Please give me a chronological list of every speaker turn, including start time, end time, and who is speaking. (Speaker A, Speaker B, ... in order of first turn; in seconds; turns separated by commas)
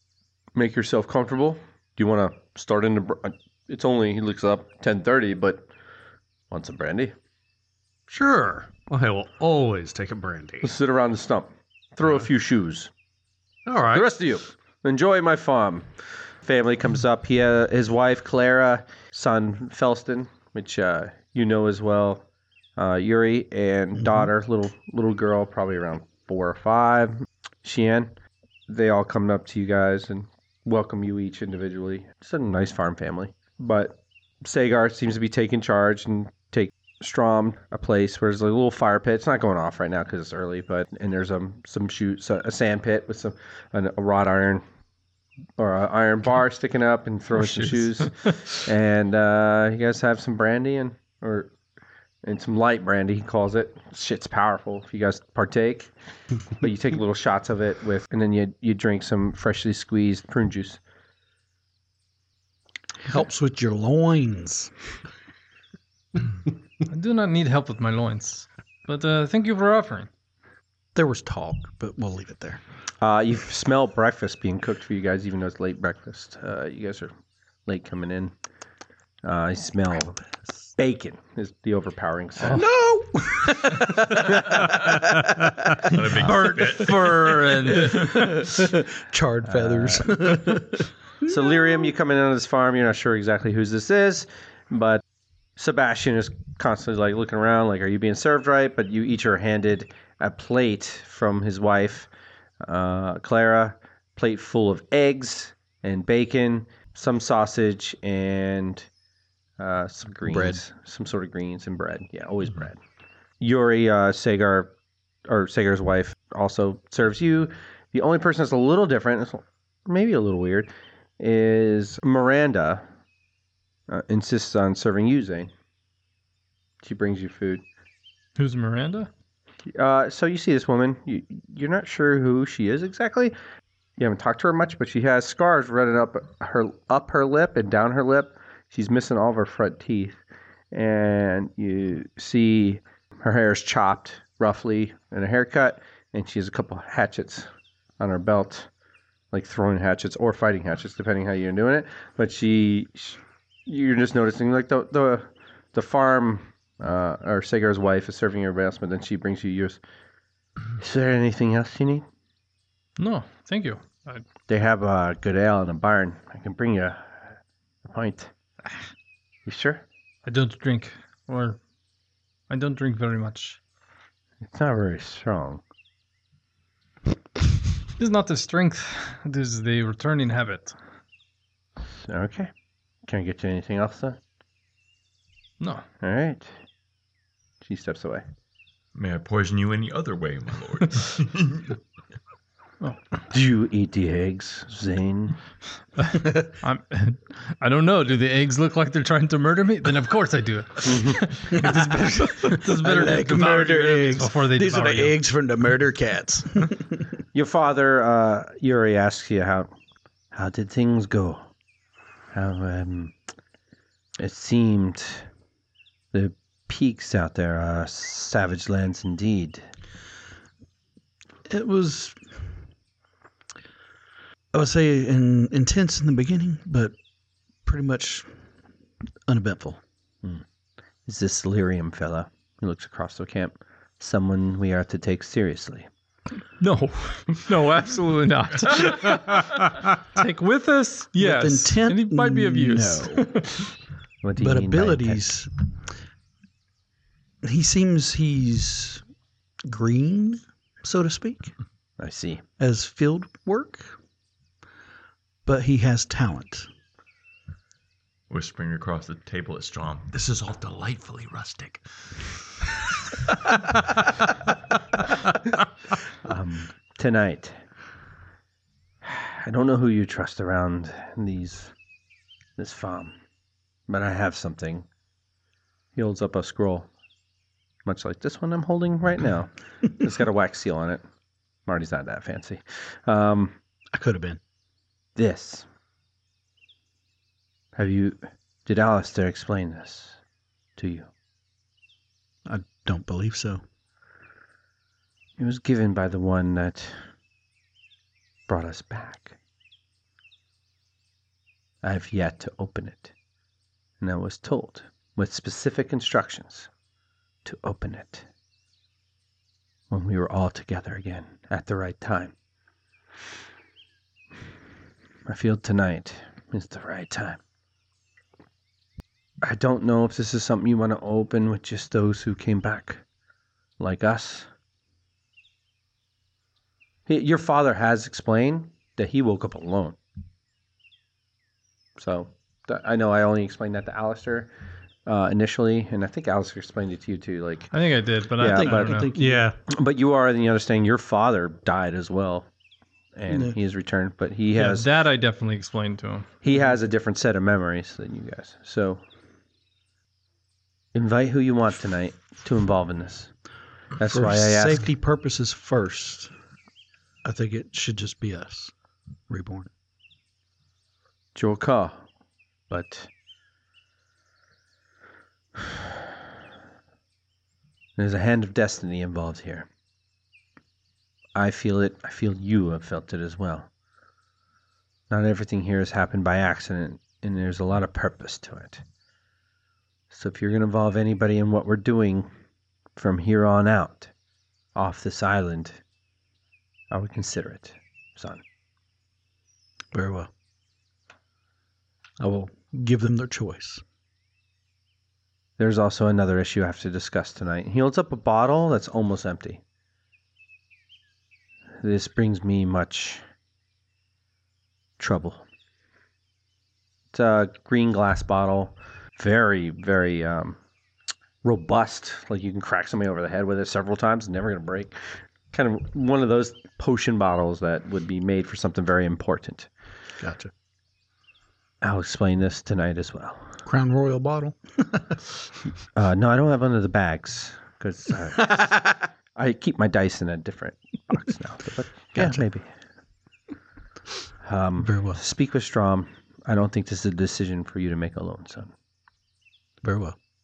Speaker A: 0.5-5.7, Speaker A: 6.5-7.1, Speaker B: 8.1-10.7, Speaker A: 10.6-12.9, Speaker B: 13.7-14.1, Speaker A: 13.9-15.9, Speaker A: 16.4-28.1, Speaker C: 24.0-24.3, Speaker A: 28.7-44.6, Speaker A: 45.6-51.5, Speaker D: 47.4-48.5, Speaker A: 52.2-55.9, Speaker A: 56.6-60.8, Speaker C: 63.0-64.7, Speaker D: 66.9-70.1, Speaker C: 70.9-72.6, Speaker A: 73.0-77.1, Speaker A: 77.7-78.3, Speaker A: 79.2-82.6, Speaker C: 82.4-86.2, Speaker E: 85.8-87.2, Speaker D: 86.1-88.5, Speaker C: 87.6-91.6, Speaker A: 89.5-90.4, Speaker A: 91.2-95.0, Speaker A: 95.6-102.1, Speaker A: 102.6-108.9, Speaker A: 109.6-112.8, Speaker C: 110.2-110.6, Speaker A: 113.4-114.7, Speaker A: 115.3-122.8, Speaker A: 123.9-125.5, Speaker A: 126.8-127.6, Speaker D: 128.4-129.1, Speaker A: 129.7-133.3, Speaker A: 134.0-140.2, Speaker A: 140.7-148.7, Speaker A: 149.3-159.8, Speaker A: 160.8-162.0, Speaker D: 163.0-164.2, Speaker A: 164.5-167.2, Speaker A: 167.8-168.3, Speaker A: 169.4-169.8, Speaker D: 170.2-171.6, Speaker D: 172.5-173.6, Speaker A: 174.4-175.6, Speaker D: 178.0-180.8, Speaker A: 181.9-182.5, Speaker A: 183.1-184.2, Speaker D: 185.6-185.8, Speaker A: 186.0-186.5, Speaker A: 187.6-188.2, Speaker E: 188.9-191.8, Speaker A: 193.3-195.4, Speaker D: 196.0-205.2, Speaker A: 200.8-201.2, Speaker C: 201.5-207.1, Speaker A: 207.3-209.7, Speaker A: 210.3-211.5, Speaker A: 212.3-213.1, Speaker A: 214.2-215.3, Speaker A: 216.1-219.7, Speaker C: 221.5-222.4, Speaker C: 224.5-226.9, Speaker C: 227.6-228.3, Speaker C: 229.3-229.8, Speaker A: 231.1-235.9, Speaker D: 236.6-243.7, Speaker C: 241.2-243.3, Speaker A: 244.2-245.3, Speaker C: 244.4-245.5, Speaker C: 247.4-249.0, Speaker C: 249.6-251.5, Speaker A: 252.0-252.4, Speaker C: 252.6-254.0, Speaker C: 255.4-256.7, Speaker E: 258.3-261.8, Speaker E: 262.7-263.0, Speaker A: 266.2-267.5, Speaker A: 269.0-271.7, Speaker A: 272.6-273.1, Speaker A: 273.9-274.9, Speaker A: 275.9-276.9, Speaker A: 277.8-281.0, Speaker A: 281.6-283.6, Speaker C: 283.9-284.4, Speaker A: 285.1-285.6, Speaker A: 287.7-290.2, Speaker A: 290.8-291.1, Speaker C: 292.4-293.6, Speaker A: 295.4-297.0, Speaker A: 298.5-299.4, Speaker A: 301.8-303.1, Speaker A: 304.0-306.7, Speaker A: 307.4-308.3, Speaker A: 309.9-312.3, Speaker A: 315.3-317.4, Speaker A: 319.4-323.0, Speaker A: 323.8-324.5, Speaker A: 327.1-330.0, Speaker A: 332.0-334.5, Speaker A: 335.1-337.7, Speaker D: 337.7-339.1, Speaker A: 338.4-339.0, Speaker C: 338.4-339.5, Speaker B: 339.1-339.6, Speaker A: 339.7-342.5, Speaker A: 343.1-344.9, Speaker C: 343.3-343.6, Speaker D: 344.5-346.3, Speaker A: 346.4-349.0, Speaker A: 350.9-353.3, Speaker A: 354.0-354.9, Speaker C: 354.1-356.3, Speaker C: 357.2-358.7, Speaker C: 359.3-359.7, Speaker A: 361.3-362.0, Speaker A: 362.7-363.1, Speaker A: 368.0-369.7, Speaker A: 371.3-373.7, Speaker A: 375.1-378.8, Speaker A: 380.1-382.3, Speaker A: 382.9-384.1, Speaker A: 384.7-385.8, Speaker A: 386.9-388.4, Speaker C: 389.9-390.3, Speaker C: 392.2-393.8, Speaker A: 395.6-399.6, Speaker A: 401.8-403.2, Speaker A: 405.0-405.4, Speaker A: 407.1-410.6, Speaker A: 411.4-415.0, Speaker A: 415.5-419.7, Speaker C: 420.2-420.5, Speaker A: 421.8-423.6, Speaker C: 423.6-425.2, Speaker A: 425.9-432.7, Speaker C: 432.1-432.4, Speaker A: 434.4-438.7, Speaker C: 434.8-435.2, Speaker C: 439.8-440.1